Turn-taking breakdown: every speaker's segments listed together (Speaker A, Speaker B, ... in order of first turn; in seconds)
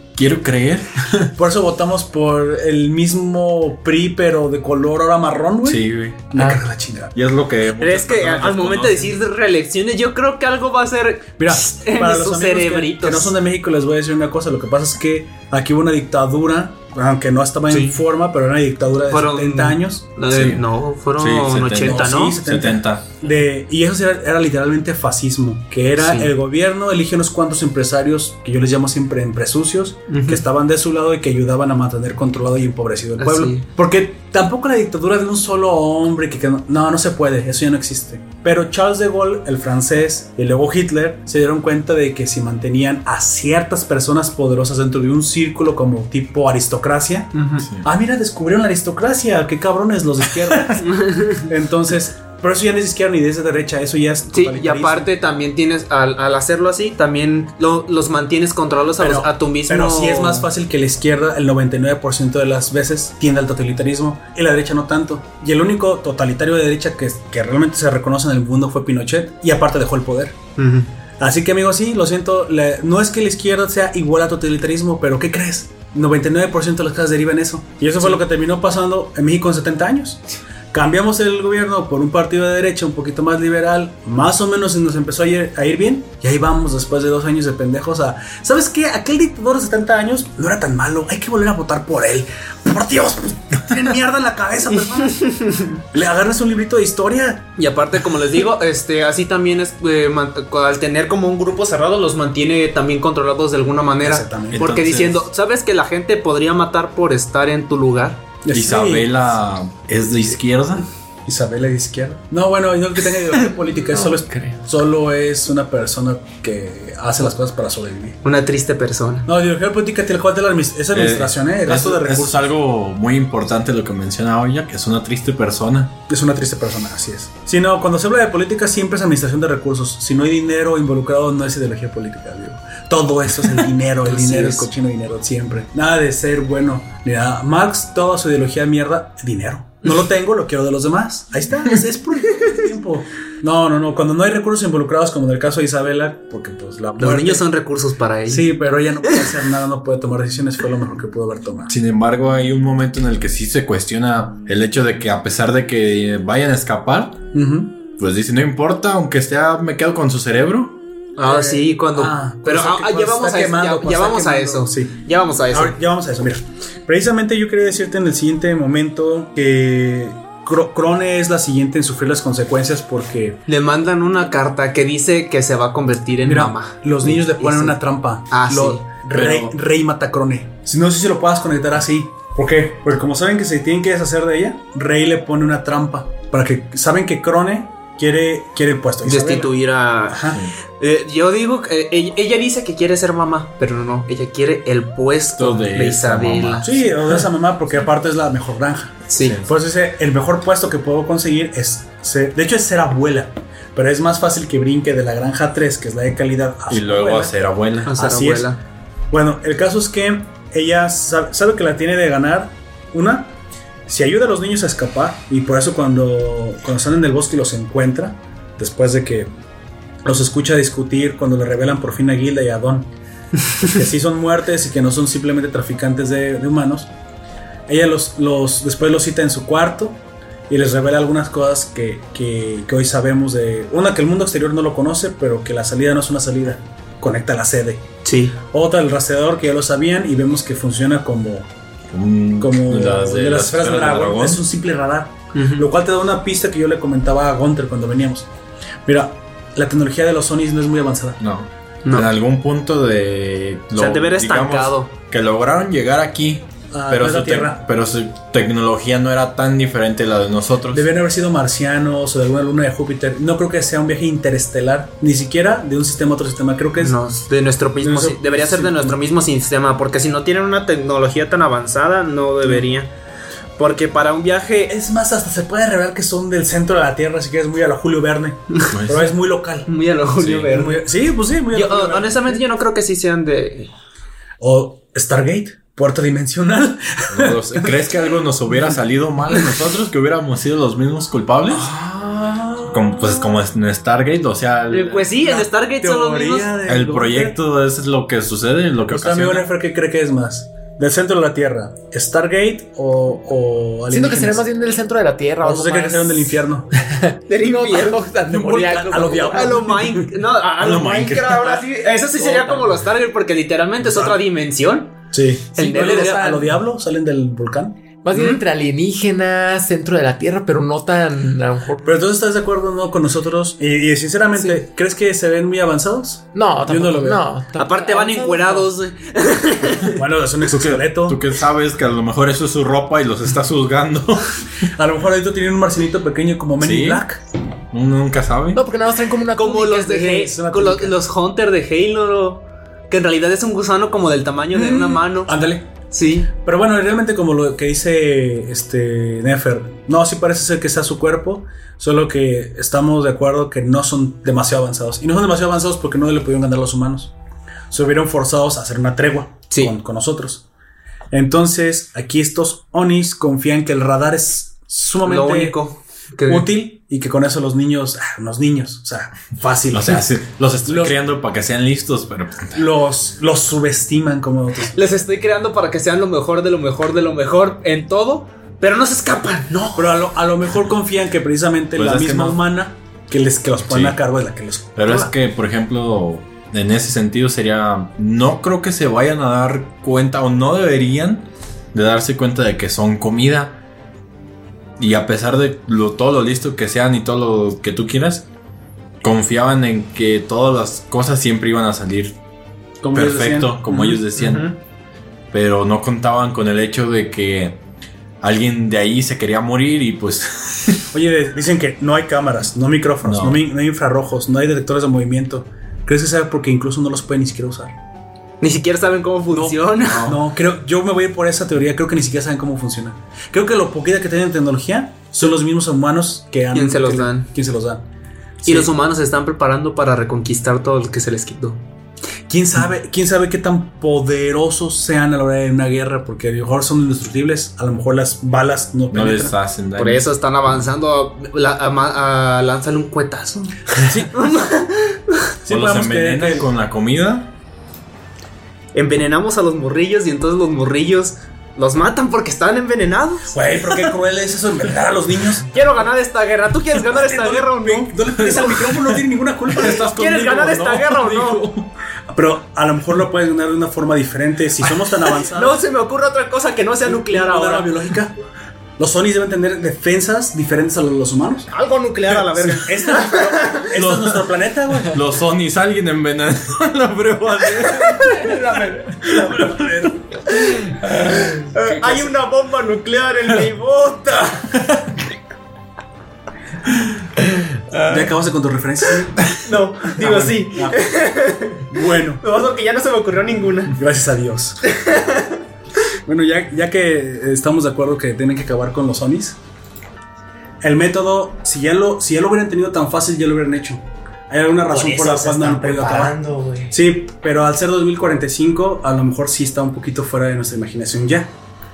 Speaker A: 0.1-1.3, 5.6-6.3, 7.1-9.2, 20.3-20.6, 21.1-23.1, 47.6-47.9, 104.5-105.2, 108.5-110.8, 120.9-125.9, 151.7-157.2, 158.0-160.8, 179.1-179.6, 190.3-190.5, 195.3-196.8, 199.2-199.5, 206.7-207.9, 241.9-244.4, 251.2-260.9, 278.7-279.1, 280.2-280.5, 287.1-291.7, 292.7-295.1, 296.6-299.5, 310.6-311.6, 330.5-334.3, 336.6-337.0, 337.7-338.6, 369.7-372.6, 381.7-382.4, 383.6-384.0, 384.8-393.6, 394.8-398.2, 399.0-402.2, 402.9-404.5, 405.3-407.6, 408.2-410.9, 413.0-413.4, 419.8-420.2, 438.9-440.1, 445.5-447.3, 459.6-460.8, 473.7-478.4, 479.1-479.5
Speaker B: 1.4-7.1, 11.4-20.0, 21.8-55.1, 59.0-70.4, 71.2-97.5, 104.0-104.7, 108.4-109.1, 111.2-118.2, 119.2-122.4, 126.1-147.4, 148.3-151.7, 157.3-157.7, 161.2-164.9, 165.5-173.4, 176.2-189.5, 190.1-190.4, 196.6-207.3, 207.9-208.5, 209.1-213.3, 213.9-219.3, 220.0-222.9, 223.6-226.9, 227.7-237.8, 238.4-241.5, 242.4-248.3, 248.8-251.2, 256.7-257.6, 260.7-267.0, 267.8-269.0, 274.7-279.7, 280.5-282.4, 284.4-287.7, 291.6-292.7, 295.2-297.4, 298.9-304.4, 305.4-306.7, 308.3-310.1, 315.1-317.8, 321.8-327.2, 329.9-331.2, 334.7-337.2, 339.9-341.0, 344.5-345.7, 346.4-357.1, 357.7-360.4, 361.1-365.6, 366.3-370.1, 370.6-370.9, 372.5-374.8, 379.8-385.1, 402.8-403.8, 410.9-417.7, 419.3-427.8, 428.4-428.7, 432.3-439.3, 443.8-444.1, 445.4-446.5, 453.3-455.5, 456.9-460.5, 462.1-465.6, 466.9-468.1, 468.8-471.5, 472.1-475.0, 479.1-479.9, 487.8-490.8, 491.7-492.2, 493.7-494.6, 496.1-499.4, 500.6-506.1, 506.7-511.3
Speaker C: 6.3-6.6, 113.9-114.6, 303.9-309.7, 312.2-312.7, 318.0-321.9, 326.3-328.7, 338.5-340.1, 461.0-461.4
Speaker D: 7.8-13.3, 17.7-18.0, 19.1-22.4, 26.0-26.3, 30.1-30.4, 33.2-33.6, 50.9-51.5, 54.3-60.5, 70.6-70.9, 95.1-95.7, 97.6-108.2, 118.2-119.3, 134.1-134.7, 147.0-148.5, 161.2-165.8, 173.5-177.8, 178.3-178.8, 189.0-196.8, 199.1-199.4, 207.8-208.6, 238.0-238.4, 245.3-245.7, 251.8-252.1, 253.7-254.9, 266.8-272.9, 273.6-274.7, 279.6-280.8, 281.5-283.7, 294.7-296.5, 307.3-308.0, 309.3-314.9, 315.5-316.5, 318.1-318.4, 327.6-330.0, 339.4-345.3, 345.9-346.3, 365.0-366.5, 374.7-379.9, 403.7-404.6, 418.4-420.1, 426.5-427.3, 428.4-431.6, 439.8-445.3, 448.7-453.4, 455.5-458.7, 459.6-461.5, 465.3-467.7, 471.5-473.6, 477.8-479.1, 480.5-484.6, 489.3-493.8, 494.6-495.4, 504.7-506.8